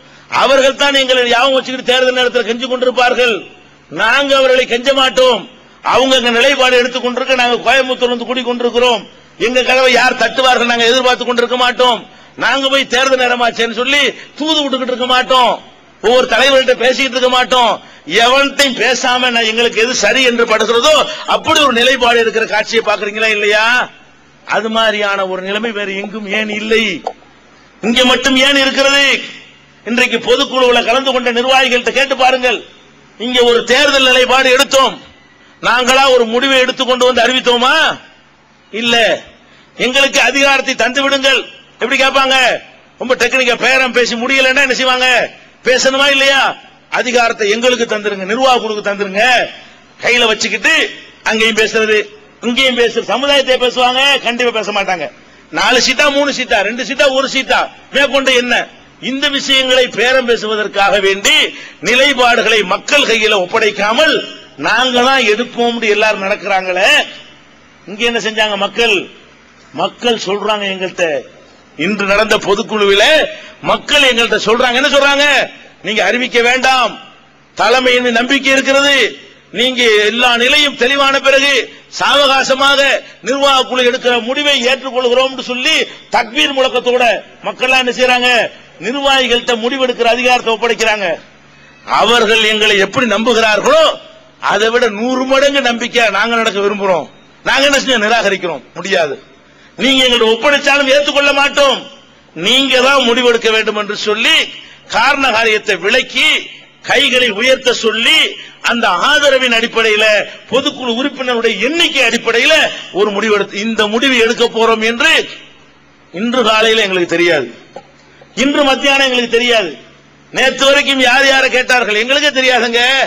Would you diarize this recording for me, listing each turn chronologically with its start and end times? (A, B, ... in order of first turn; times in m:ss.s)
0:00.4-0:03.4 A
0:04.0-0:23.7 A
0:24.5-0:26.9 A
0:27.8-0:29.1 A
0:29.9-0:32.6 A
0:33.2-0:35.0 A
0:35.6-0:37.8 A
0:38.7-0:39.1 A
0:39.8-0:42.4 A
0:43.0-0:45.1 A
0:45.6-0:49.3 A
0:50.0-1:06.9 A
1:07.9-1:09.0 A
1:09.8-1:11.1 A
1:11.8-1:13.1 A
1:13.6-1:15.3 A
1:15.8-1:17.0 A
1:17.6-1:19.0 A
1:19.6-1:31.1 A
1:32.0-1:33.9 A
1:34.5-1:39.2 A
1:39.8-1:41.8 A
1:42.4-1:44.4 A
1:44.9-1:46.3 A
1:46.8-1:55.1 A
1:56.2-1:57.5 A
1:58.4-1:59.7 A
2:00.3-2:02.9 A